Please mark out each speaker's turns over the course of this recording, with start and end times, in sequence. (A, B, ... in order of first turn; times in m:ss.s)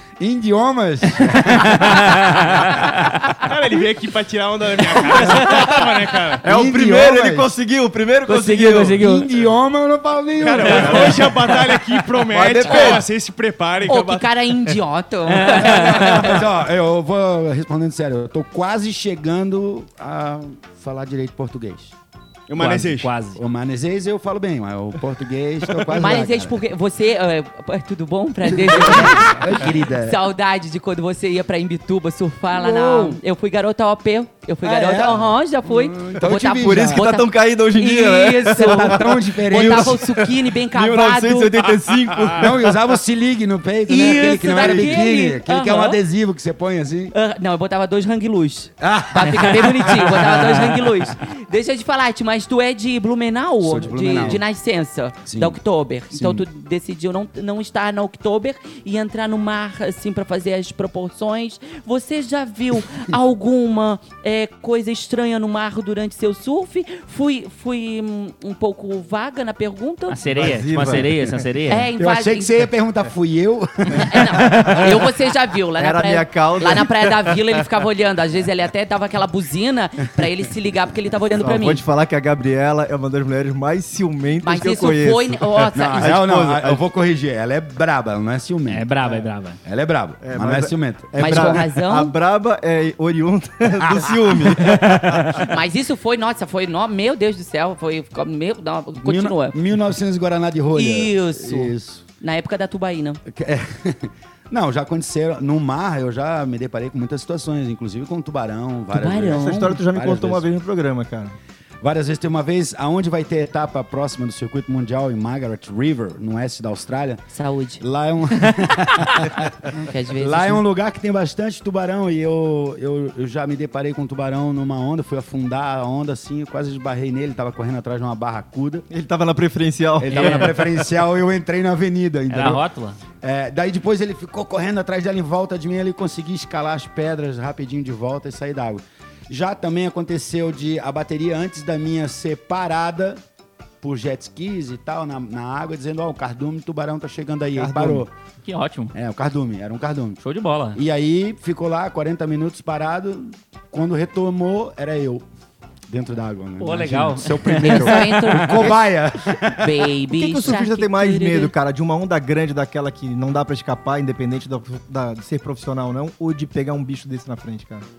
0:00.2-0:02.8 A
0:01.5-0:02.9 B
0:03.4-0:06.4 C
0:06.4-0:09.1 D
0:06.4-0:07.5 A
0:08.3-0:09.3 B
0:08.3-0:11.8 A
0:10.4-0:14.3 C
0:10.9-0:11.2 D
0:12.2-0:13.0 D
0:13.8-0:16.3 E
0:15.3-0:16.4 B
0:15.7-0:21.9 A
0:22.5-0:23.2 C
0:22.6-0:23.4 B
0:23.4-0:26.6 A
0:26.0-0:41.7 E
0:28.6-0:30.2 A
0:34.6-0:37.0 A
0:36.3-0:42.8 D
0:38.4-0:40.0 A
0:42.4-0:47.2 A
0:43.9-0:46.0 E
0:44.3-0:45.1 D
0:47.1-1:10.2 E
0:48.8-0:50.6 A
0:53.6-0:54.4 A
0:55.3-0:55.6 A
0:56.1-0:56.4 A
1:10.1-1:11.9 B
1:10.3-1:11.4 D
1:11.7-1:12.5 E
1:12.0-1:14.7 A
1:13.9-1:21.8 E
1:14.6-1:14.9 B
1:15.8-1:17.6 D
1:21.4-1:26.8 D
1:24.4-1:26.1 E
1:25.8-1:29.1 A
1:28.7-1:29.6 B
1:29.6-1:31.6 A
1:30.2-1:35.3 D
1:31.2-1:32.2 E
1:33.7-1:35.4 A
1:35.4-1:39.6 E
1:39.0-1:42.0 A
1:40.7-1:43.2 E
1:43.3-1:50.4 A
1:48.9-1:49.7 E
1:49.2-1:51.4 D
1:51.8-1:57.2 A
1:57.3-1:57.8 E
1:57.8-2:08.9 A
1:59.7-2:00.6 E
2:08.9-2:10.5 D
2:10.0-2:12.6 A
2:10.1-2:10.7 B
2:12.3-2:13.0 B
2:13.2-2:23.2 A
2:23.8-2:28.1 A
2:27.6-2:28.1 D
2:28.4-2:28.9 B
2:28.9-2:30.2 A
2:30.2-2:30.8 B
2:30.8-2:35.2 A
2:35.9-2:39.7 A
2:36.6-2:38.6 B
2:37.6-2:38.8 E
2:39.6-2:41.5 E
2:40.1-2:47.9 D